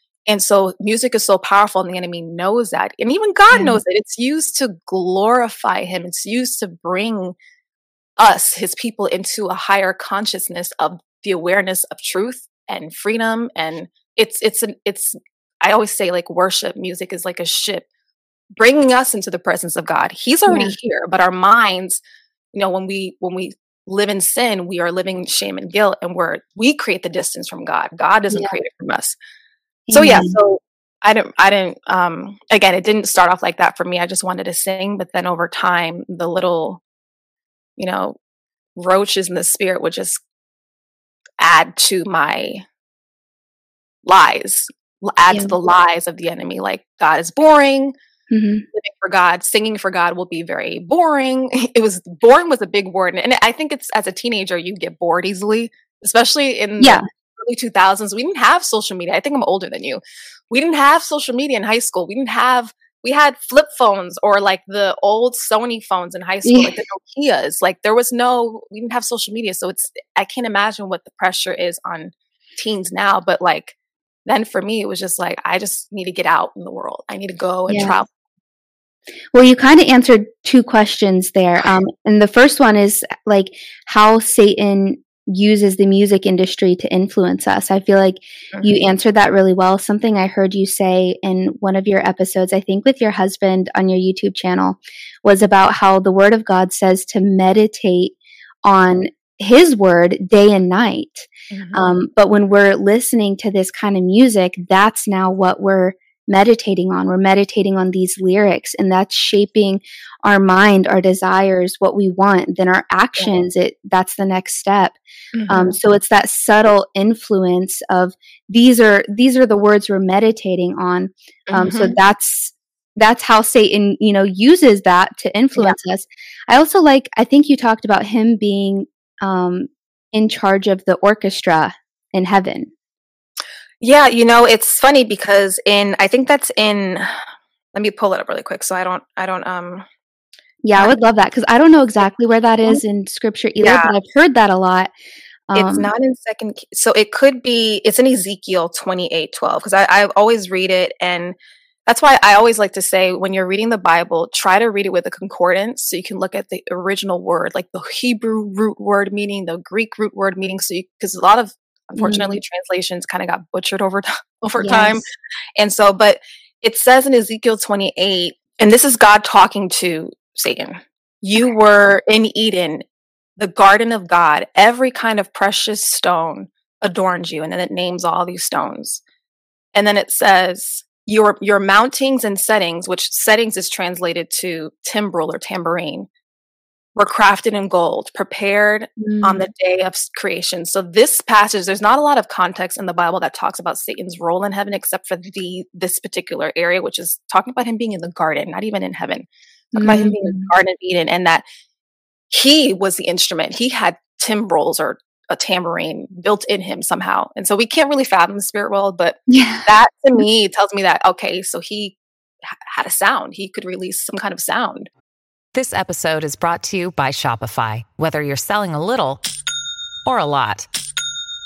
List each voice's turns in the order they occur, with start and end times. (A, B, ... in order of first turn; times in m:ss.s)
0:00.3-0:07.4 A
0:03.5-0:03.8 B
0:08.2-0:17.9 A
0:18.6-0:22.0 A
0:20.5-0:20.8 B
0:22.5-0:29.2 A
0:28.3-0:28.6 B
0:29.9-0:30.4 B
0:29.9-0:36.8 A
0:37.8-0:38.2 A
0:38.8-0:40.2 A
0:41.4-0:42.6 A
0:44.0-0:47.9 A
0:48.3-0:48.6 B
0:48.7-1:13.8 A
1:06.4-1:06.8 B
1:14.2-1:18.1 A
1:17.7-1:18.0 B
1:19.3-1:55.0 B
1:41.5-1:41.9 A
1:55.3-1:55.8 A
1:55.5-2:12.7 B
2:01.5-2:02.0 A
2:13.8-2:17.2 A
2:17.7-2:19.9 A
2:20.6-2:24.9 B
2:23.6-2:23.9 A
2:25.5-2:25.9 B
2:25.5-2:31.4 A
2:31.9-2:45.0 A
2:42.0-2:42.4 B
2:44.6-2:45.0 B
2:45.6-2:52.8 A
2:53.4-2:59.0 A
2:59.7-3:06.1 A
3:07.0-3:21.4 A
3:09.0-3:09.5 B
3:19.8-3:20.5 B
3:22.3-3:34.9 A
3:29.3-3:30.2 B
3:35.5-3:39.2 C
3:40.0-3:40.7 C